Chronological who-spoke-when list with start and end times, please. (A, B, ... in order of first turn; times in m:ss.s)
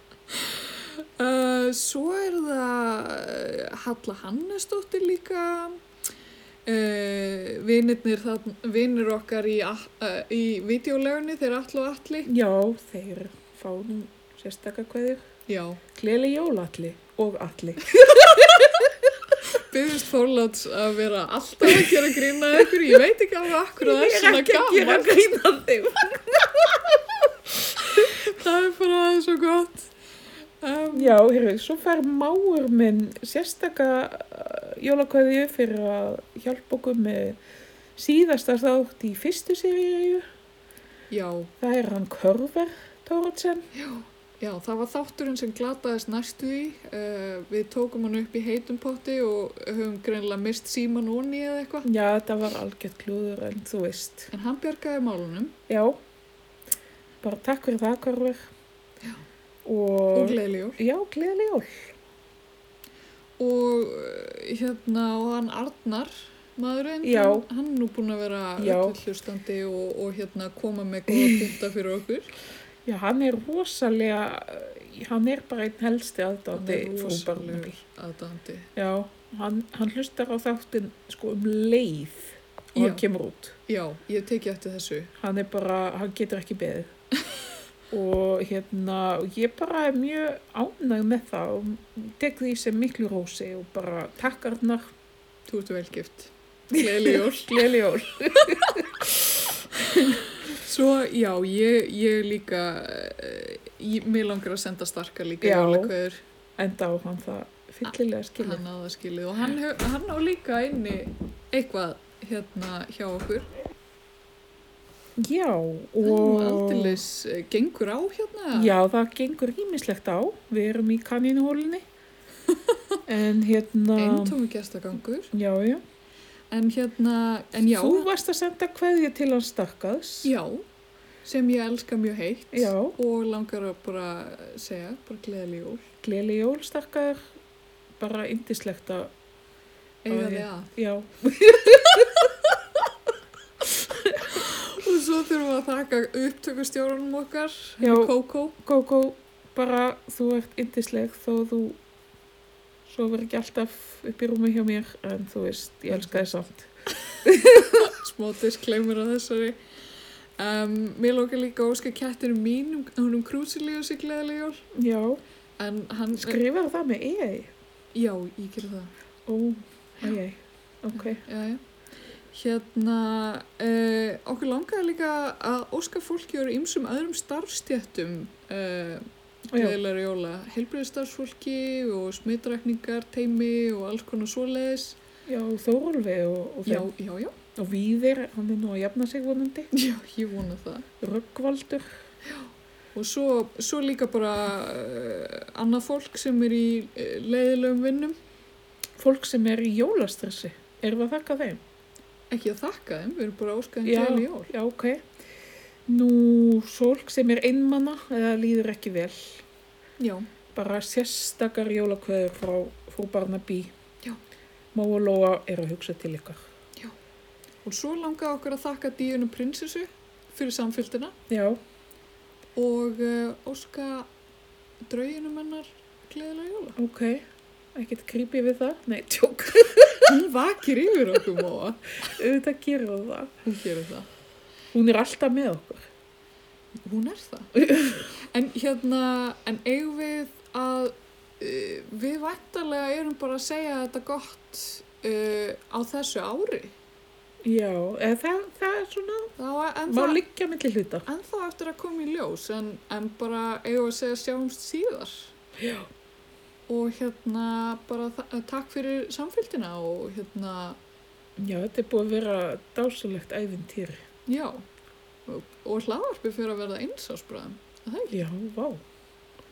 0:00.4-0:05.8 A
0:06.7-0:12.3 A
0:12.3-0:15.2 B
0:15.5-0:15.8 A
0:16.0-0:19.1 B
0:19.5-0:25.2 A
0:23.8-0:27.3 B
0:27.9-0:29.9 A
0:30.6-0:31.2 A
0:30.9-0:37.4 B
0:38.0-0:40.3 B
0:41.1-0:41.5 A
0:41.6-0:43.7 B
0:43.7-0:51.9 A
0:51.8-0:54.3 B
0:54.3-0:55.6 A
0:55.7-0:56.0 B
0:57.2-0:58.5 B
0:59.6-1:01.9 B
1:00.1-1:00.8 A
1:03.4-1:12.3 A
1:07.0-1:07.5 B
1:08.6-1:09.0 B
1:12.9-1:17.7 B
1:16.5-1:18.7 A
1:18.8-1:23.6 B
1:22.8-1:23.0 A
1:23.7-1:25.1 A
1:25.2-1:26.9 B
1:27.9-1:34.9 B
1:35.5-1:37.8 A
1:36.8-1:39.2 B
1:39.8-1:40.2 B
1:40.4-1:46.2 A
1:45.4-1:45.9 B
1:46.6-1:48.6 B
1:48.4-1:53.5 A
1:55.2-1:57.0 B
1:56.0-1:58.8 A
1:58.5-2:01.8 B
2:03.1-2:04.4 B
2:04.0-2:05.3 A
2:05.3-2:05.8 B
2:06.5-2:08.1 A
2:07.6-2:10.3 B
2:10.2-2:10.6 A
2:11.2-2:15.9 A
2:12.5-2:13.0 B
2:16.0-2:17.3 B
2:18.0-2:19.1 B
2:20.0-2:20.7 A
2:20.1-2:22.4 B
2:23.7-2:24.4 B
2:24.3-2:28.6 A
2:27.8-2:31.8 B
2:32.9-2:36.7 B
2:35.9-2:36.2 A
2:37.2-2:37.9 B
2:37.7-2:39.6 A
2:40.4-2:44.7 A
2:44.7-2:45.2 B
2:45.6-2:46.4 A
2:46.1-2:47.5 B
2:47.9-2:48.9 A
2:49.3-2:51.2 B
2:51.0-2:51.6 A
2:52.3-3:05.0 A
2:59.5-2:59.8 B
3:05.3-3:06.9 B
3:06.7-3:07.4 A
3:07.6-3:09.7 B
3:09.7-3:10.9 A
3:11.0-3:11.9 B
3:12.3-3:18.2 A
3:19.0-3:21.6 B
3:22.3-3:24.5 A
3:23.8-3:25.1 B
3:25.9-3:29.4 B
3:30.0-3:30.3 A
3:30.5-3:33.7 B
3:34.7-3:36.4 B
3:37.6-3:41.2 A
3:41.3-3:41.6 B
3:42.6-3:44.1 A
3:44.8-3:46.8 A
3:46.8-3:50.2 B
3:50.1-3:52.0 A
3:52.2-3:53.3 B
3:53.4-3:54.1 A
3:54.7-3:55.9 B
3:56.8-3:57.6 A
3:57.6-3:58.1 B
3:58.1-4:06.8 A
4:07.4-4:09.3 B
4:09.4-4:10.2 A
4:09.9-4:11.1 B
4:11.1-4:15.3 A
4:15.6-4:15.9 B
4:16.7-4:20.8 A
4:21.4-4:24.0 B
4:24.3-4:24.6 A
4:25.3-4:28.2 A
4:28.1-4:28.8 B